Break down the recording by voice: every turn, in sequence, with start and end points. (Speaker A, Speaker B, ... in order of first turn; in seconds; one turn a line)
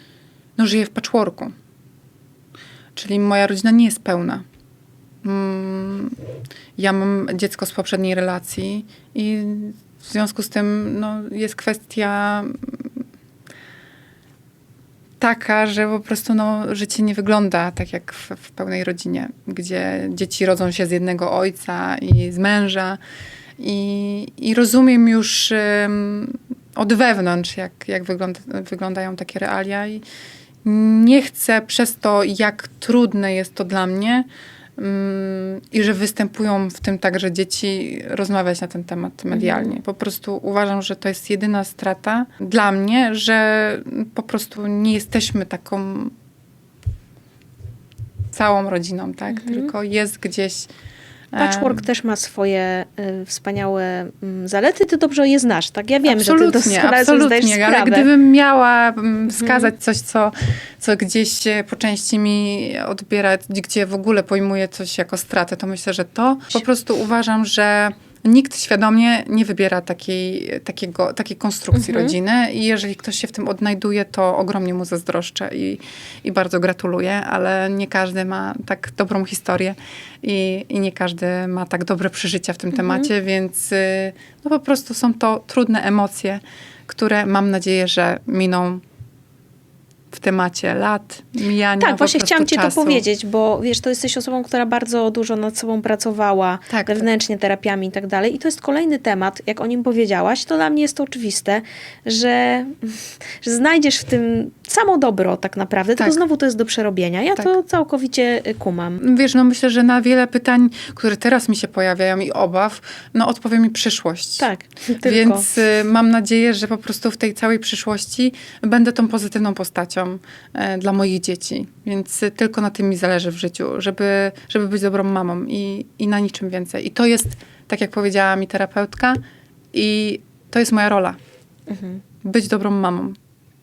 Speaker A: 0.6-1.5
Speaker A: 3.0-4.4
Speaker A: 5.2-6.2
Speaker A: 6.8-12.9
Speaker A: 15.2-23.0
Speaker A: 23.6-30.0
Speaker A: 30.6-46.1
Speaker B: 39.3-39.8
Speaker A: 48.3-50.7
Speaker B: 49.3-49.7
Speaker A: 51.3-51.8
Speaker B: 51.4-58.1
Speaker A: 56.0-88.8
Speaker B: 59.4-59.7
Speaker B: 71.7-72.2
Speaker B: 82.8-83.0
Speaker A: 90.1-93.0
Speaker B: 91.8-109.0
Speaker A: 96.7-97.1
Speaker A: 109.0-114.5
Speaker B: 114.4-115.5
Speaker A: 115.0-129.2
Speaker A: 129.7-131.2
Speaker B: 131.7-132.0
Speaker A: 132.2-133.2